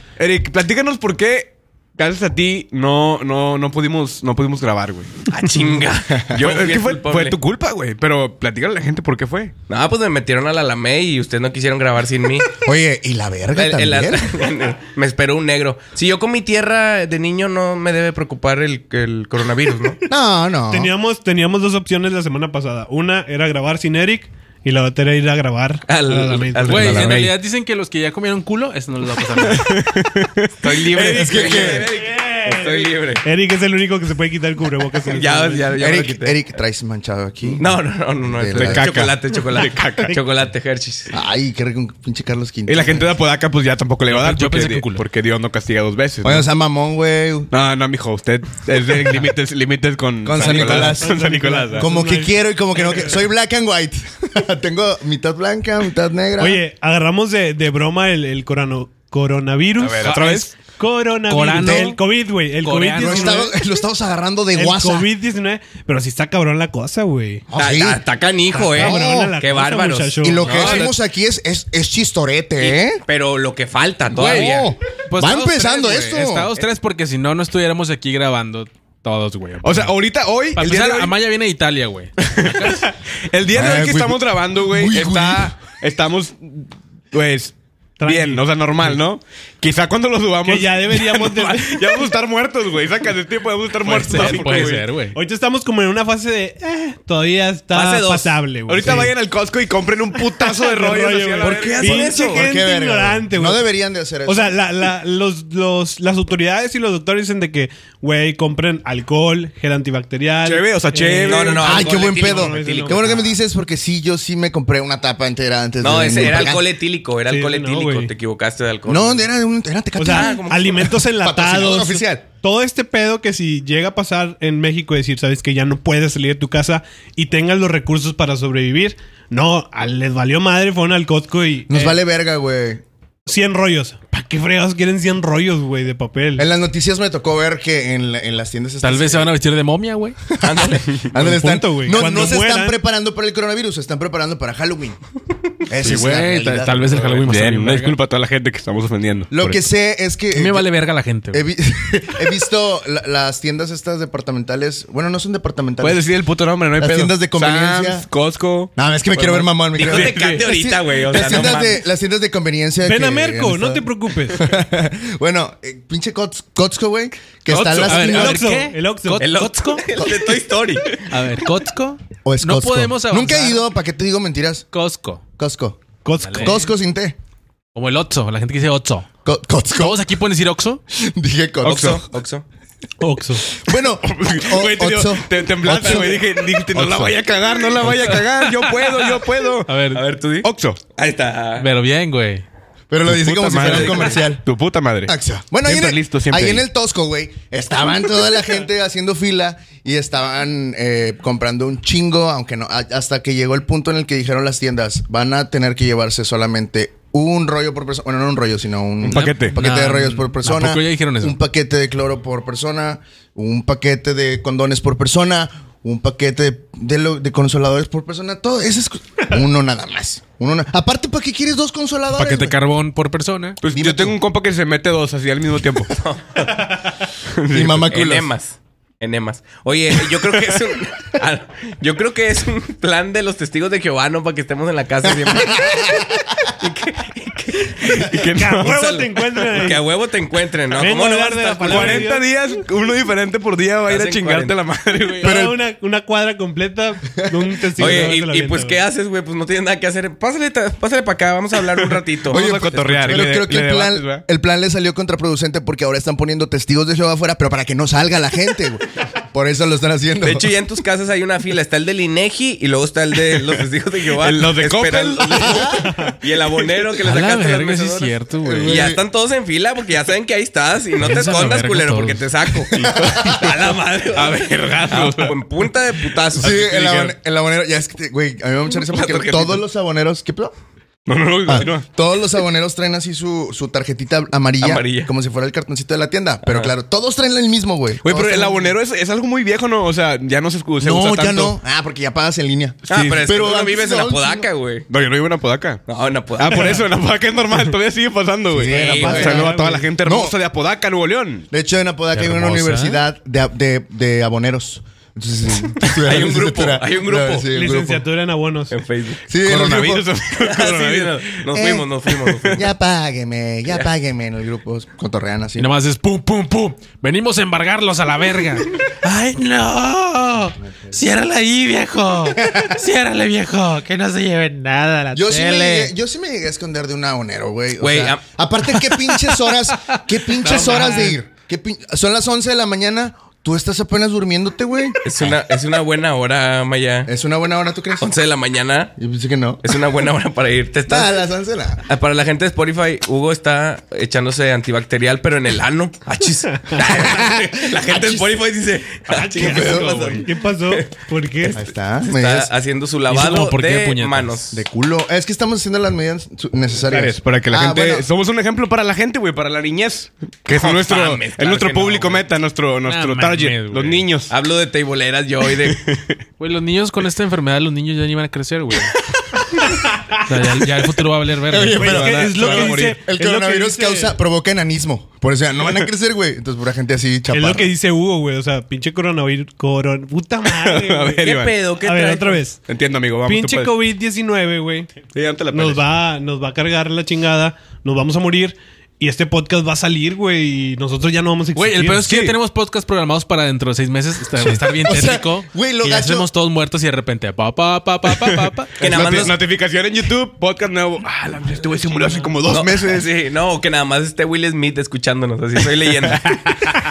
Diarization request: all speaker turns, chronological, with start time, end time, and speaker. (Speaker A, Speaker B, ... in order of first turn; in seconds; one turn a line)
Speaker A: 0.2-5.1
Speaker B: 5.3-7.4
Speaker A: 6.3-9.5
Speaker B: 9.7-12.5
Speaker C: 12.6-14.3
Speaker B: 13.5-20.0
Speaker C: 20.1-20.9
Speaker D: 20.7-27.2
Speaker B: 25.9-27.4
Speaker E: 26.7-29.9
Speaker A: 29.4-31.9
Speaker B: 30.6-33.2
Speaker C: 31.1-31.9
Speaker D: 31.7-35.7
Speaker B: 35.0-36.4
Speaker C: 35.8-39.0
Speaker B: 37.4-41.1
Speaker A: 38.5-40.2
Speaker C: 41.1-43.1
Speaker A: 42.7-46.5
Speaker E: 44.1-45.0
Speaker C: 46.2-47.5
Speaker A: 47.5-51.9
Speaker C: 50.2-56.6
Speaker D: 50.4-53.1
Speaker D: 56.4-63.5
Speaker A: 59.8-60.5
Speaker E: 61.3-62.0
Speaker C: 61.5-62.0
Speaker E: 62.6-63.5
Speaker C: 63.0-65.1
Speaker D: 64.5-67.5
Speaker C: 67.5-68.0
Speaker B: 67.6-70.3
Speaker D: 68.5-70.8
Speaker C: 68.7-69.4
Speaker C: 70.2-73.0
Speaker E: 70.4-70.9
Speaker A: 70.5-70.8
Speaker B: 72.6-74.7
Speaker E: 74.1-79.9
Speaker C: 74.2-76.5
Speaker A: 79.6-81.2
Speaker E: 80.5-82.8
Speaker A: 82.2-94.9
Speaker C: 83.5-85.5
Speaker D: 88.0-88.5
Speaker D: 90.4-92.1
Speaker E: 93.8-95.2
Speaker B: 94.1-94.7
Speaker D: 95.1-99.1
Speaker B: 97.7-98.4
Speaker A: 98.7-102.1
Speaker D: 100.3-103.6
Speaker B: 101.4-102.5
Speaker C: 102.2-104.6
Speaker D: 104.3-113.2
Speaker A: 110.4-111.6
Speaker B: 111.3-113.3
Speaker C: 111.6-116.7
Speaker B: 115.8-119.3
Speaker D: 117.3-118.1
Speaker C: 118.9-122.3
Speaker D: 120.0-132.0
Speaker B: 120.0-120.9
Speaker C: 131.7-132.8
Speaker D: 133.3-136.5
Speaker C: 136.4-139.3
Speaker E: 138.8-140.2
Speaker C: 140.3-145.0
Speaker B: 140.4-141.1
Speaker D: 141.1-142.8
Speaker C: 145.6-147.1
Speaker E: 145.8-148.0
Speaker A: 147.1-149.7
Speaker C: 149.3-150.7
Speaker E: 150.3-151.4
Speaker C: 151.3-156.0
Speaker A: 155.8-158.7
Speaker C: 156.8-158.1
Speaker C: 158.8-168.6
Speaker B: 159.2-161.8
Speaker A: 159.8-160.5
Speaker A: 161.2-161.5
Speaker D: 162.8-164.5
Speaker A: 167.5-168.0
Speaker E: 167.8-169.9
Speaker D: 167.9-169.3
Speaker B: 169.2-171.1
Speaker E: 171.1-173.7
Speaker C: 172.2-174.7
Speaker E: 174.7-175.2
Speaker C: 175.4-177.2
Speaker D: 176.0-176.7
Speaker E: 176.2-176.6
Speaker E: 177.7-179.1
Speaker C: 179.2-180.0
Speaker E: 179.8-180.8
Speaker C: 180.9-182.0
Speaker A: 181.7-182.0
Speaker B: 181.7-182.4
Speaker D: 183.0-183.5
Speaker C: 183.6-186.2
Speaker A: 184.0-189.7
Speaker B: 185.8-186.1
Speaker C: 186.7-187.2
Speaker E: 188.1-188.7
Speaker E: 189.7-190.0
Speaker B: 189.9-191.7
Speaker A: 190.4-190.8
Speaker E: 191.6-192.4
Speaker C: 192.9-194.4
Speaker A: 193.1-196.7
Speaker C: 195.1-222.6
Speaker A: 209.0-209.6
Speaker E: 209.1-211.4
Speaker E: 222.1-223.6
Speaker A: 223.6-225.9
Speaker C: 223.7-224.2
Speaker B: 225.9-226.6
Speaker A: 227.4-227.9
Speaker C: 227.5-228.3
Speaker B: 227.9-236.0
Speaker C: 235.3-236.2
Speaker B: 236.6-242.1
Speaker A: 237.9-238.8
Speaker D: 238.3-239.8
Speaker D: 240.8-242.3
Speaker A: 241.7-245.4
Speaker B: 243.9-244.6
Speaker D: 245.2-248.8
Speaker C: 245.2-245.6
Speaker B: 247.8-253.2
Speaker A: 252.3-254.2
Speaker C: 252.3-260.5
Speaker B: 260.2-276.5
Speaker A: 264.2-265.7
Speaker C: 265.5-265.8
Speaker D: 265.9-266.1
Speaker E: 267.0-268.9
Speaker C: 268.4-269.0
Speaker E: 271.0-272.2
Speaker A: 272.7-275.4
Speaker C: 272.8-273.5
Speaker A: 276.3-277.1
Speaker C: 276.4-280.5
Speaker B: 278.8-279.6
Speaker A: 281.1-281.9
Speaker C: 281.5-288.7
Speaker B: 284.6-285.1
Speaker A: 288.0-291.6
Speaker C: 290.8-294.5
Speaker A: 292.9-293.3
Speaker B: 292.9-294.9
Speaker A: 294.9-295.8
Speaker B: 295.9-296.8
Speaker A: 296.4-301.5
Speaker C: 298.5-299.5
Speaker D: 298.7-299.9
Speaker B: 298.8-299.5
Speaker C: 300.0-300.3
Speaker C: 301.5-308.1
Speaker E: 302.1-303.0
Speaker B: 305.8-307.5
Speaker D: 307.5-308.8
Speaker B: 308.7-309.2
Speaker C: 309.3-310.1
Speaker A: 309.4-311.4
Speaker B: 310.3-312.6
Speaker C: 311.5-311.9
Speaker A: 312.2-312.6
Speaker C: 312.5-315.7
Speaker E: 315.6-325.9
Speaker C: 320.7-320.9
Speaker C: 322.3-322.8
Speaker C: 325.1-335.0
Speaker B: 327.8-328.2
Speaker E: 330.3-331.2
Speaker B: 335.0-337.1
Speaker C: 337.1-338.1
Speaker B: 338.0-338.9
Speaker C: 339.0-339.6
Speaker B: 339.6-341.1
Speaker C: 340.9-341.9
Speaker B: 341.9-350.9
Speaker C: 346.8-348.3
Speaker D: 349.1-351.6
Speaker C: 349.4-350.2
Speaker A: 349.7-349.9
Speaker B: 351.4-354.6
Speaker C: 351.5-352.5
Speaker E: 353.1-354.5
Speaker C: 354.5-358.1
Speaker A: 356.9-364.3
Speaker B: 360.5-362.3
Speaker E: 362.9-364.1
Speaker B: 364.3-365.8
Speaker A: 365.7-366.1
Speaker E: 366.4-368.9
Speaker E: 370.2-372.2
Speaker C: 371.5-377.7
Speaker D: 371.8-374.1
Speaker A: 371.9-373.1
Speaker D: 377.3-382.7
Speaker A: 380.5-381.7
Speaker B: 381.2-382.5
Speaker A: 382.7-383.8
Speaker D: 383.2-392.0
Speaker A: 385.1-385.8
Speaker E: 391.6-398.8
Speaker A: 392.0-392.4
Speaker C: 394.4-396.3
Speaker A: 398.2-403.0
Speaker B: 398.8-399.4
Speaker B: 402.5-406.7